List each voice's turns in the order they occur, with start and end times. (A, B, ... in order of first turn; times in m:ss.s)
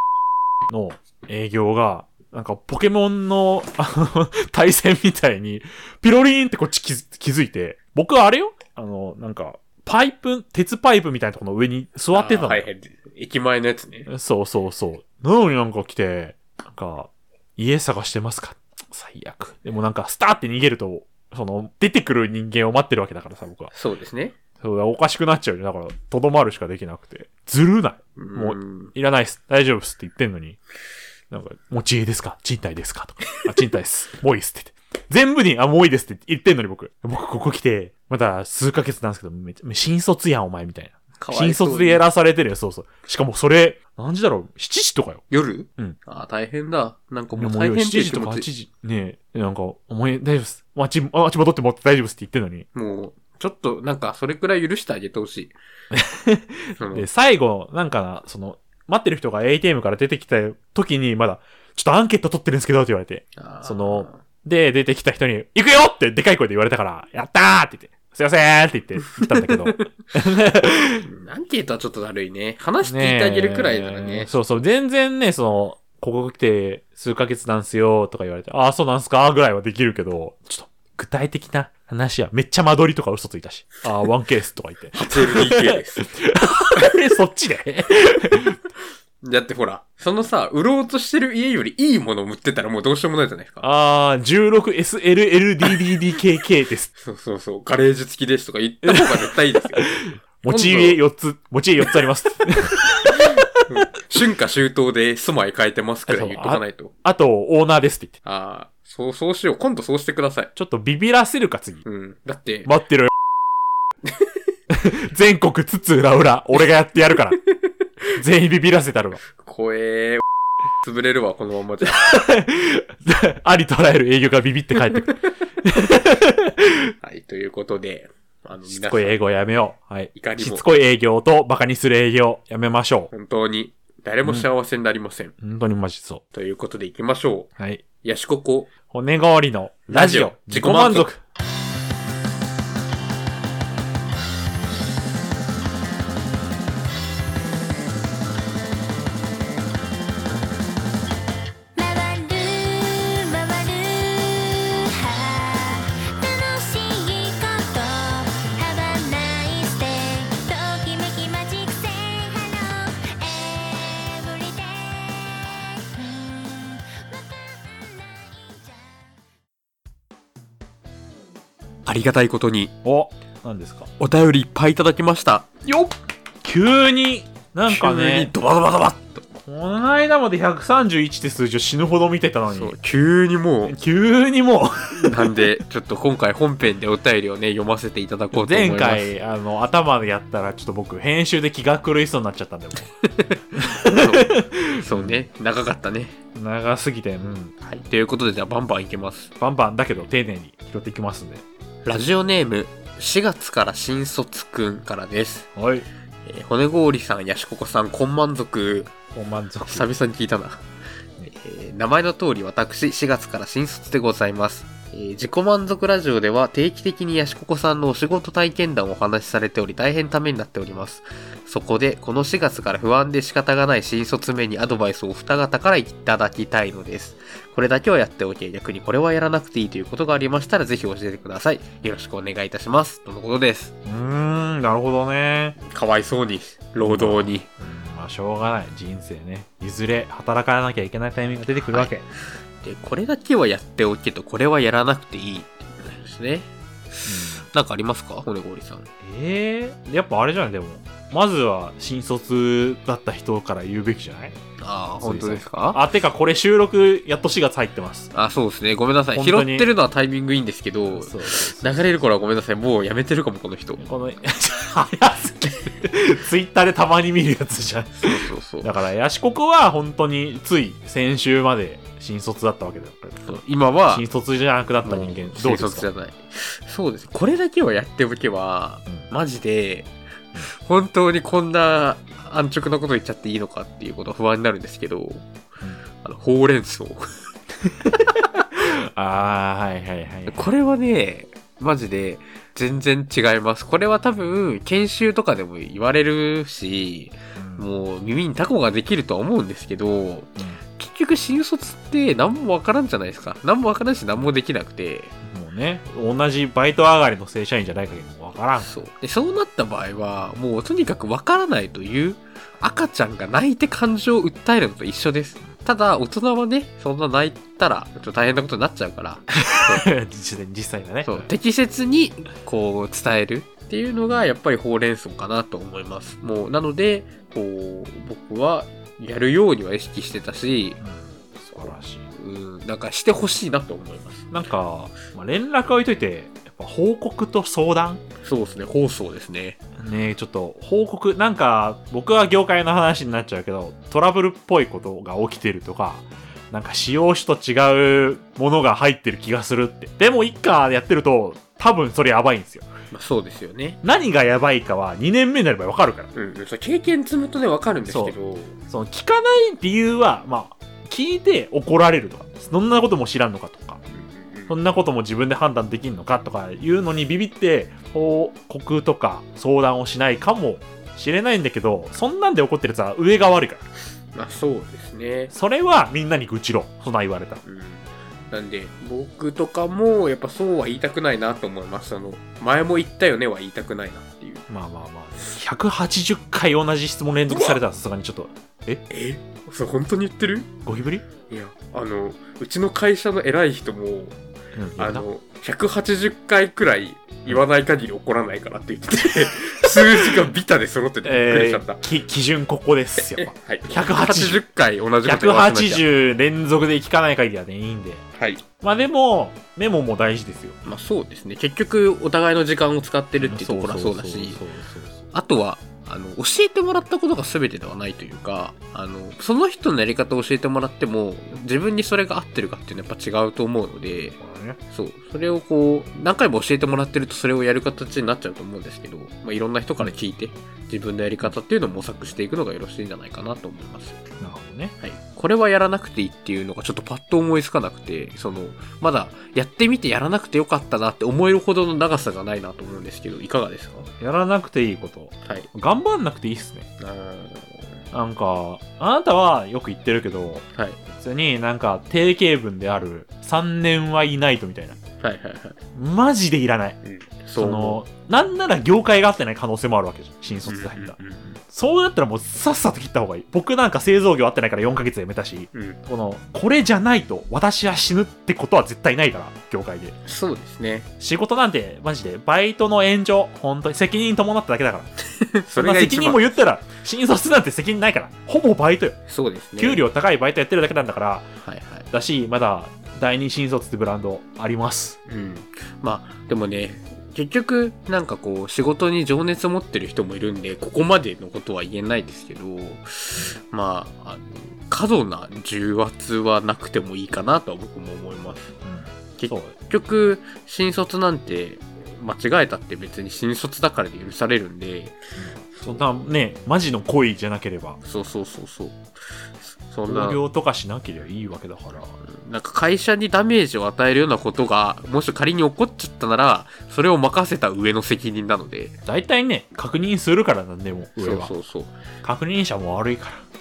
0:00.7-0:12.7 A
0:12.1-0:14.1 B
0:14.1-0:23.7 A
0:23.7-0:24.4 B
0:24.6-0:30.6 A
0:28.2-0:28.9 B
0:31.3-0:45.2 A
0:41.2-0:42.0 B
0:45.3-0:48.5 B
0:47.4-0:52.7 A
0:52.7-0:55.5 B
0:55.9-1:11.1 A
0:56.8-0:57.0 B
1:03.4-1:04.2 B
1:09.4-1:09.7 B
1:11.0-1:14.3 B
1:12.8-1:28.6 A
1:25.0-1:26.1 B
1:29.2-1:33.6 B
1:33.6-1:36.9 A
1:37.0-1:39.8 B
1:38.8-1:43.6 A
1:40.4-1:41.0 B
1:43.2-1:46.9 B
1:46.1-1:48.2 A
1:48.2-1:50.5 B
1:50.5-1:51.8 A
1:51.8-1:52.7 B
1:52.6-1:53.1 A
1:54.0-1:54.3 B
1:54.7-1:57.4 A
1:58.2-1:59.2 A
1:59.3-2:00.2 B
2:00.8-2:02.0 B
2:01.8-2:06.9 A
2:07.0-2:09.2 B
2:08.7-2:13.1 A
2:10.1-2:10.7 B
2:13.1-2:15.3 B
2:15.4-2:16.2 A
2:16.3-2:18.7 B
2:17.6-2:17.8 A
2:18.9-2:21.2 A
2:19.9-2:21.1 B
2:31.8-2:49.1 C
2:51.8-2:52.7 B
2:52.8-2:53.9 A
2:54.0-2:55.5 B
2:55.6-2:58.3 A
2:57.7-2:59.2 B
2:59.3-3:02.7 A
3:02.5-3:03.8 B
3:03.6-3:05.4 A
3:05.0-3:09.1 B
3:08.3-3:12.9 A
3:13.5-3:15.2 A
3:13.8-3:16.2 B
3:16.3-3:17.6 A
3:17.6-3:19.3 B
3:19.4-3:21.4 A
3:21.8-3:25.5 B
3:25.6-3:25.9 A
3:26.2-3:28.9 B
3:29.1-3:29.9 A
3:29.7-3:30.6 B
3:31.3-3:53.7 B
3:53.8-3:55.6 A
3:55.6-3:57.4 B
3:56.8-4:02.0 A
4:02.6-4:08.9 B
4:07.0-4:07.5 A
4:09.0-4:14.4 A
4:14.6-4:15.8 B
4:15.0-4:18.1 A
4:18.1-4:23.8 B
4:19.1-4:19.7 A
4:20.8-4:21.9 A
4:23.8-4:35.9 A
4:28.0-4:28.8 B
4:33.2-4:34.0 B
4:34.8-4:39.9 B
4:40.5-4:45.3 B
4:46.0-4:47.1 B
4:47.6-4:50.5 A
4:50.3-5:05.1 B
4:57.4-4:57.7 A
5:05.2-5:08.7 A
5:08.6-5:19.9 B
5:19.4-5:21.3 A
5:21.0-5:30.8 B
5:30.8-5:32.1 A
5:31.6-5:34.3 B
5:34.3-5:38.0 A
5:38.2-5:39.6 B
5:39.8-5:52.7 A
5:52.9-5:53.8 B
5:53.8-5:56.1 A
5:56.1-5:58.5 B
5:57.9-5:58.1 A
5:58.6-6:03.8 A
6:03.9-6:04.5 B
6:04.5-6:13.6 A
6:14.1-6:15.3 B
6:15.3-6:17.4 A
6:17.4-6:24.4 B
6:24.5-6:28.8 A
6:27.3-6:27.6 B
6:28.9-6:30.5 B
6:30.6-6:31.0 A
6:31.3-6:34.2 B
6:34.5-6:35.1 A
6:34.8-6:41.8 B
6:41.0-6:44.4 A
6:43.0-6:45.8 B
6:45.0-6:48.0 A
6:48.2-6:48.4 B
6:48.6-6:50.6 A
6:50.6-6:54.4 B
6:53.2-6:55.1 A
6:55.1-7:04.2 B
7:04.2-7:04.6 A
7:04.7-7:14.0 B
7:14.2-7:14.8 A
7:14.8-7:23.9 B
7:24.0-7:26.7 A
7:26.8-7:27.8 B
7:27.9-7:34.8 A
7:35.0-7:35.6 B
7:35.7-7:36.8 A
7:36.8-7:37.8 B
7:37.4-7:50.0 A
7:40.4-7:41.3 B
7:50.0-7:50.9 B
7:51.0-7:54.9 A
7:55.2-7:56.2 B
7:55.5-7:59.0 A
7:59.1-7:59.8 B
7:59.6-8:01.3 A
8:01.4-8:01.9 B
8:01.9-8:05.0 A
8:05.1-8:18.5 B
8:18.6-8:19.6 A
8:19.2-8:25.0 B
8:25.2-8:27.8 A
8:27.8-8:28.8 B
8:29.4-8:30.2 B
8:29.9-8:32.0 A
8:32.0-8:38.7 B
8:38.8-8:41.3 A
8:41.0-8:41.7 B
8:42.0-8:43.2 A